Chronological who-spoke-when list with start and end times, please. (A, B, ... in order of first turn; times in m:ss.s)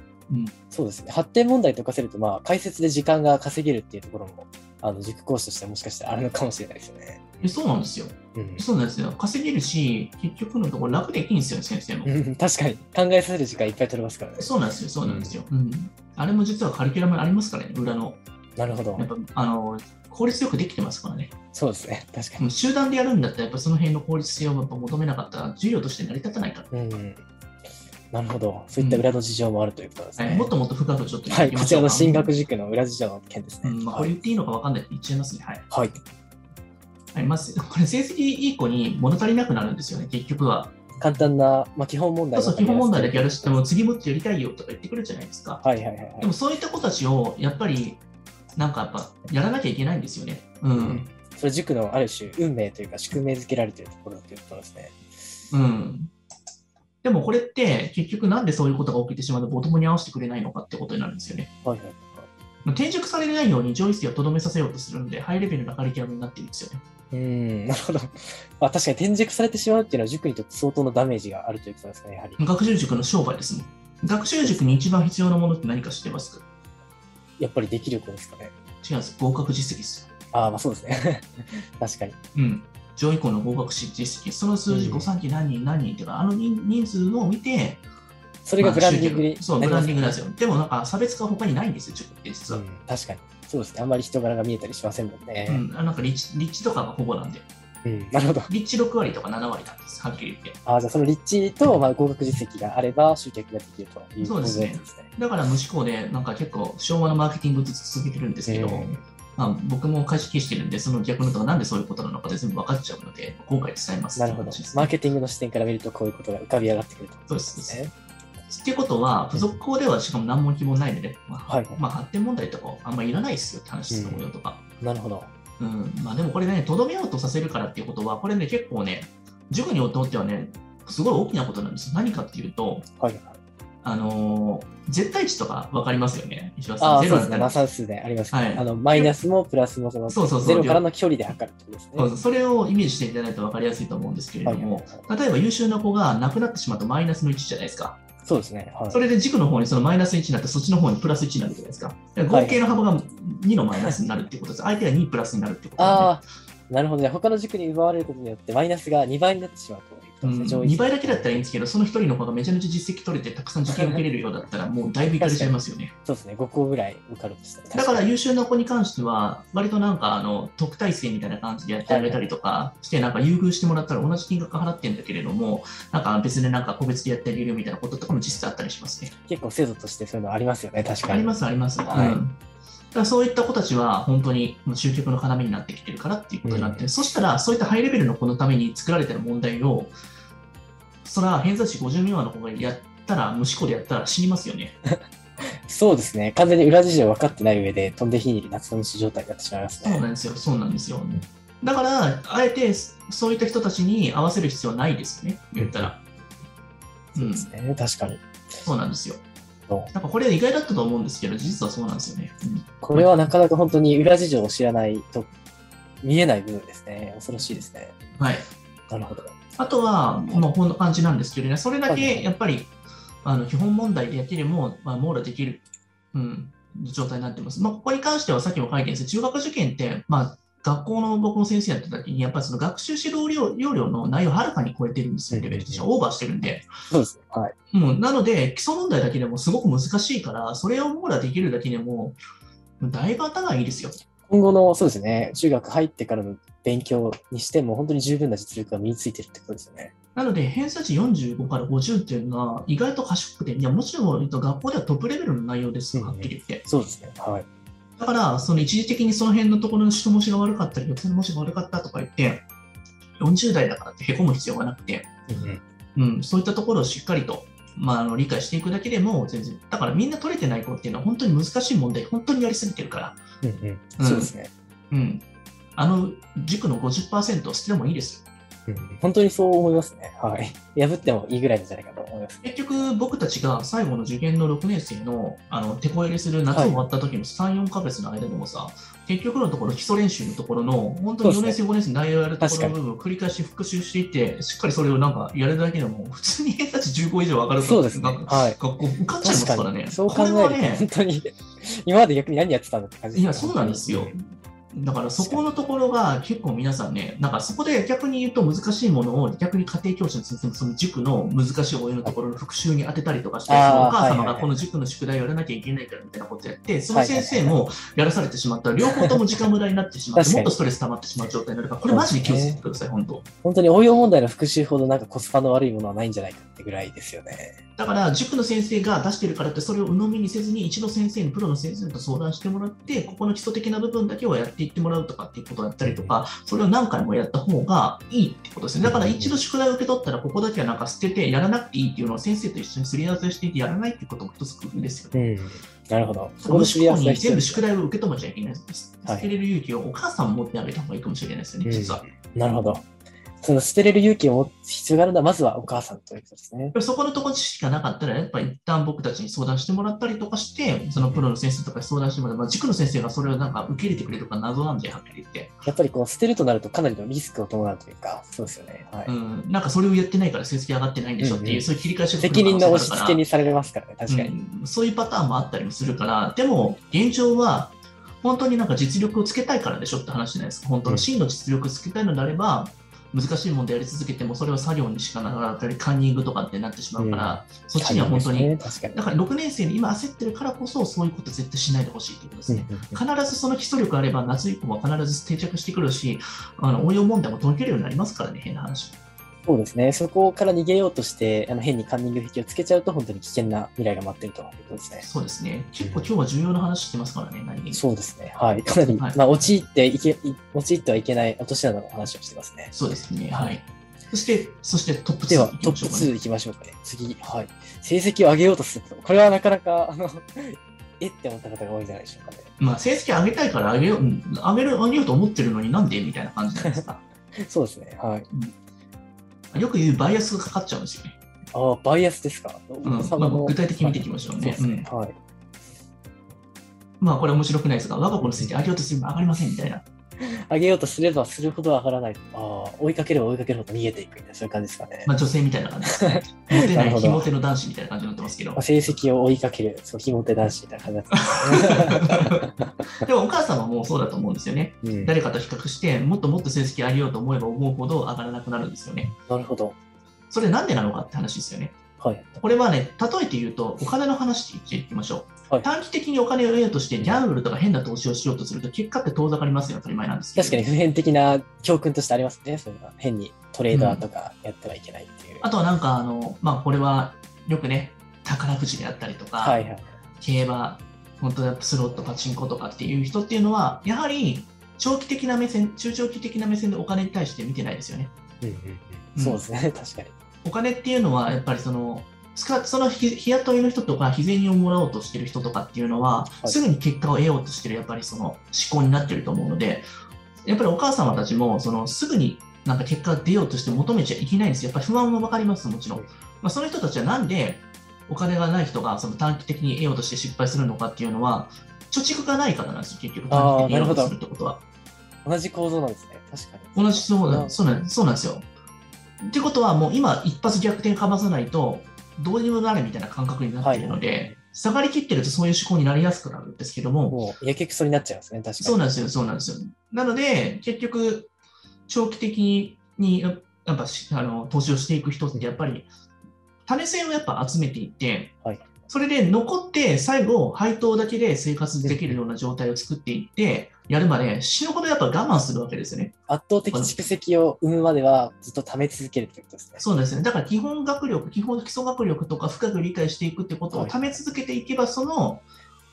0:00.7-0:07.4 A
0:07.4-0:12.1 B
0:08.4-0:08.7 A
0:12.0-0:14.5 A
0:14.4-0:18.2 B
0:15.0-0:15.4 A
0:18.6-0:19.1 A
0:19.0-0:21.3 B
0:21.5-0:22.4 A
0:22.4-0:26.7 B
0:26.7-0:27.2 A
0:28.1-0:30.5 A
0:28.8-0:29.1 B
0:30.2-0:32.3 B
0:31.3-0:34.1 A
0:33.6-0:35.6 B
0:35.7-0:36.0 A
0:37.1-0:40.8 B
0:41.0-0:43.6 A
0:42.3-0:45.6 B
0:45.6-0:46.3 A
0:46.2-0:48.0 B
0:48.6-0:51.1 B
0:50.7-0:55.0 A
0:55.5-0:56.1 B
0:57.0-1:01.5 B
1:01.6-1:02.3 A
1:02.6-1:06.8 B
1:07.1-1:12.4 A
1:12.4-1:16.4 B
1:17.4-1:18.5 A
1:18.8-1:20.1 B
1:20.3-1:22.1 A
1:22.4-1:27.8 B
1:24.7-1:25.1 A
1:28.4-1:30.2 A
1:28.6-1:32.6 B
1:32.5-1:35.6 A
1:35.5-1:37.4 B
1:37.8-1:38.5 A
1:38.5-1:40.6 B
1:40.7-1:45.1 A
1:44.2-1:54.9 B
1:48.5-1:49.0 A
1:54.2-1:57.9 A
1:57.3-1:57.8 B
1:58.5-2:04.6 B
2:01.5-2:01.8 A
2:03.9-2:04.3 A
2:04.8-2:05.3 A
2:05.6-2:12.9 B
2:13.0-2:13.4 A
2:13.8-2:17.6 B
2:16.8-2:22.1 A
2:18.3-2:19.1 B
2:20.1-2:20.8 B
2:22.0-2:28.0 B
2:24.4-2:25.1 A
2:28.3-2:29.0 A
2:28.9-2:36.2 B
2:32.3-2:32.6 A
2:35.8-2:41.5 A
2:40.2-2:45.9 B
2:43.7-2:44.0 A
2:45.2-2:48.1 A
2:47.7-2:59.1 B
2:51.9-2:52.3 A
2:58.1-2:58.4 A
2:59.1-3:01.3 A
3:01.1-3:02.4 B
3:01.9-3:02.2 A
3:02.9-3:09.9 B
3:06.4-3:06.9 A
3:11.0-3:14.8 B
3:14.8-3:20.0 A
3:19.8-3:26.0 B
3:25.6-3:25.9 A
3:27.2-3:27.5 B
3:27.2-3:28.3 A
3:28.6-3:29.2 B
3:29.9-3:33.1 B
3:32.8-3:35.3 A
3:36.0-3:38.0 A
3:38.2-3:38.4 B
3:38.9-3:39.4 A
3:39.6-3:42.7 B
3:41.9-3:42.3 A
3:43.2-3:56.7 B
3:55.3-3:55.9 A
3:56.9-3:57.6 A
3:57.7-4:02.2 B
4:02.8-4:04.0 B
4:04.3-4:09.9 A
4:10.2-4:16.6 B
4:15.9-4:17.4 A
4:18.0-4:22.4 B
4:23.2-4:25.1 B
4:25.3-4:25.6 A
4:25.9-4:33.2 B
4:33.4-4:34.5 A
4:34.0-4:34.3 B
4:34.9-4:35.2 B
4:35.8-4:38.2 B
4:38.7-4:42.9 A
4:42.4-5:00.9 B
4:46.5-4:46.8 A
4:51.2-4:51.6 A
4:52.4-4:52.8 A
4:57.6-4:58.6 A
4:59.2-5:04.1 A
5:03.1-5:23.3 B
5:13.5-5:14.6 A
5:16.9-5:17.6 A
5:18.9-5:19.2 A
5:20.2-5:20.5 A
5:21.9-5:22.6 A
5:23.4-5:27.6 A
5:27.8-5:45.2 B
5:35.8-5:36.1 A
5:38.8-5:39.4 A
5:45.1-5:47.6 A
5:46.4-5:52.0 B
5:49.1-5:49.3 A
5:51.6-5:52.8 A
5:53.4-5:56.8 A
5:56.8-6:05.6 B
6:01.0-6:01.2 A
6:05.6-6:09.1 A
6:09.1-6:13.2 B
6:11.2-6:11.7 A
6:12.2-6:14.3 A
6:14.1-6:39.0 B
6:27.0-6:29.0 A
6:32.5-6:33.0 A
6:39.4-6:45.1 A
6:45.0-6:47.8 B
6:45.8-6:46.1 A
6:47.7-6:52.7 A
6:52.7-6:56.1 B
6:55.3-7:02.5 A
7:02.6-7:07.0 B
7:07.4-7:08.3 A
7:09.5-7:11.2 B
7:11.5-7:15.2 A
7:12.8-7:14.8 B
7:17.0-7:19.8 B
7:18.2-7:18.5 A
7:20.2-7:25.1 A
7:25.1-7:28.6 B
7:25.9-7:27.3 A
7:28.6-7:33.1 A
7:31.1-7:39.2 B
7:34.8-7:35.2 A
7:39.3-7:39.8 A
7:40.3-7:41.8 B
7:42.0-7:42.3 A
7:42.3-7:50.6 B
7:50.4-7:55.5 A
7:53.7-7:54.0 B
7:55.4-7:59.6 B
7:59.4-7:59.9 A
8:00.2-8:08.1 B
8:08.4-8:10.2 A
8:09.2-8:09.4 B
8:10.4-8:19.9 B
8:20.4-8:34.6 B
8:33.3-8:34.1 A
8:35.2-8:37.6 A
8:36.8-8:38.5 B
8:39.2-8:47.2 B
8:43.6-8:44.4 A
8:47.1-8:48.9 A
8:48.6-8:51.3 B
8:51.9-8:55.9 B
8:56.6-8:58.4 B
8:58.9-9:06.2 B
9:01.8-9:02.2 A
9:06.3-9:09.8 A
9:09.8-9:15.4 B
9:13.7-9:14.0 A